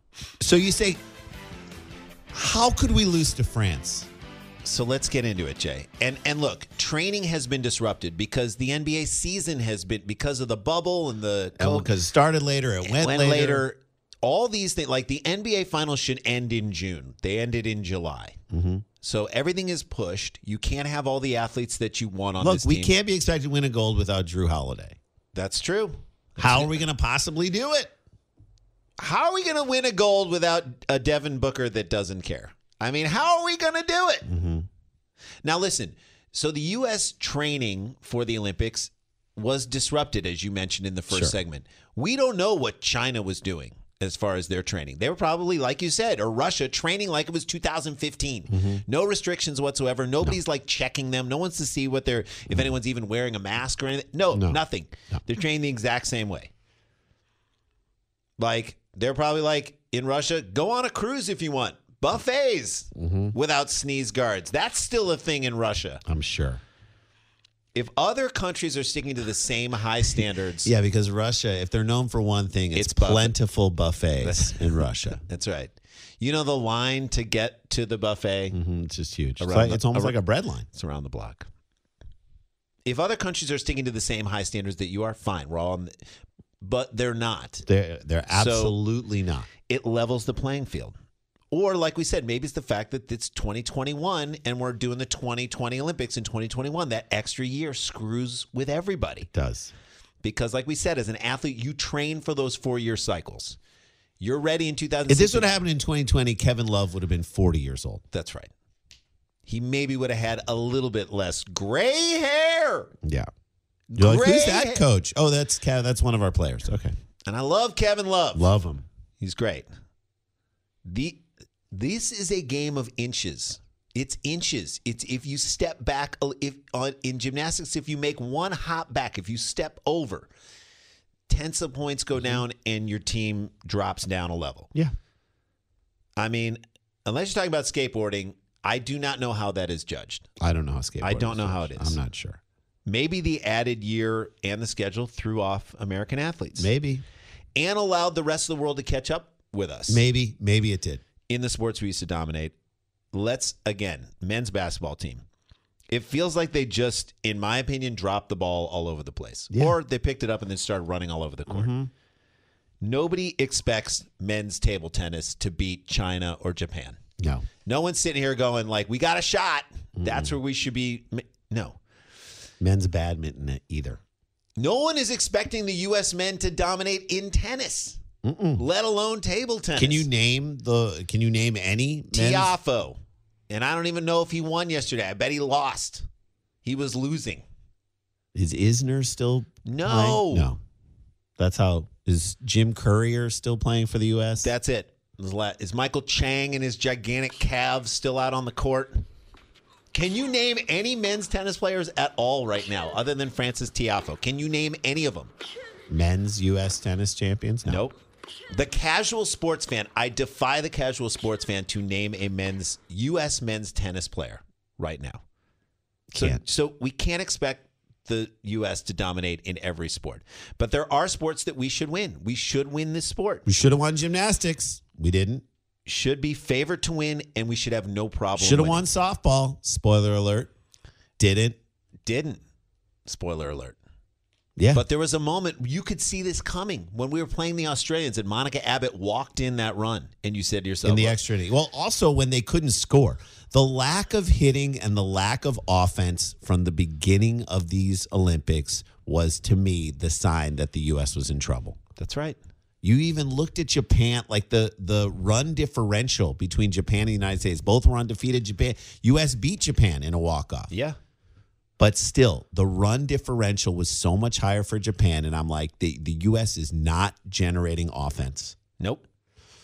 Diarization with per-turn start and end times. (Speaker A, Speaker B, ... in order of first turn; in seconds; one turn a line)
Speaker A: 0.4-1.0
Speaker A: 2.3-4.1
Speaker B: 4.6-11.9
Speaker A: 11.6-13.7
Speaker B: 12.8-18.4
Speaker A: 18.5-18.8
Speaker B: 19.0-22.9
Speaker A: 22.4-25.0
Speaker B: 25.3-26.8
Speaker A: 26.4-27.9
Speaker B: 29.0-34.2
Speaker A: 34.2-34.7
Speaker B: 35.4-56.5
Speaker A: 41.1-41.4
Speaker A: 48.5-48.8
Speaker A: 54.3-55.2
Speaker B: 58.4-66.0
Speaker A: 62.9-63.3
Speaker A: 66.0-66.6
Speaker B: 67.7-70.7
Speaker A: 70.6-75.2
Speaker B: 72.7-73.3
Speaker B: 74.2-78.6
Speaker A: 78.5-80.7
Speaker B: 79.4-80.2
Speaker B: 80.7-81.5
Speaker B: 82.8-85.9
Speaker B: 86.6-87.6
Speaker A: 87.7-89.5
Speaker B: 88.3-88.8
Speaker B: 89.7-90.9
Speaker B: 91.5-99.3
Speaker A: 99.3-99.7
Speaker B: 100.2-103.6
Speaker B: 104.2-105.5
Speaker A: 105.1-108.0
Speaker B: 108.1-108.5
Speaker B: 109.5-112.9
Speaker A: 113.0-113.3
Speaker B: 113.9-114.8
Speaker A: 114.0-116.9
Speaker B: 117.3-118.5
Speaker A: 118.3-118.8
Speaker B: 119.2-119.7
Speaker B: 120.8-130.3
Speaker B: 131.3-134.7
Speaker A: 132.2-132.4
Speaker B: 136.2-140.3
Speaker A: 140.4-142.4
Speaker B: 141.0-142.0
Speaker B: 142.8-146.7
Speaker A: 146.6-147.0
Speaker B: 147.5-150.0
Speaker A: 149.9-151.0
Speaker B: 151.3-152.5
Speaker B: 153.1-155.2
Speaker B: 155.9-161.7
Speaker A: 159.5-159.8
Speaker A: 161.5-161.9
Speaker B: 162.8-167.0
Speaker A: 167.2-167.4
Speaker B: 167.6-171.8
Speaker A: 170.0-170.3
Speaker A: 172.6-174.0
Speaker B: 174.6-178.0
Speaker A: 178.2-178.6
Speaker B: 178.6-180.1
Speaker A: 179.8-182.5
Speaker B: 182.1-183.0
Speaker B: 183.5-186.0
Speaker B: 186.6-187.4
Speaker A: 188.3-190.6
Speaker B: 189.6-190.5
Speaker A: 191.4-194.5
Speaker B: 194.4-199.0
Speaker B: 199.9-205.3
Speaker A: 205.9-207.8
Speaker B: 207.6-208.0
Speaker B: 208.5-215.2
Speaker A: 216.1-216.4
Speaker B: 216.1-223.4
Speaker A: 223.4-225.4
Speaker B: 225.8-228.8
Speaker A: 228.4-230.5
Speaker A: 231.2-231.6
Speaker B: 232.1-232.4
Speaker B: 233.1-233.8
Speaker A: 234.6-234.8
Speaker B: 234.7-241.2
Speaker A: 240.8-251.8
Speaker B: 252.0-252.4
Speaker A: 252.8-260.7
Speaker B: 260.7-261.0
Speaker A: 261.8-268.6
Speaker B: 268.8-269.0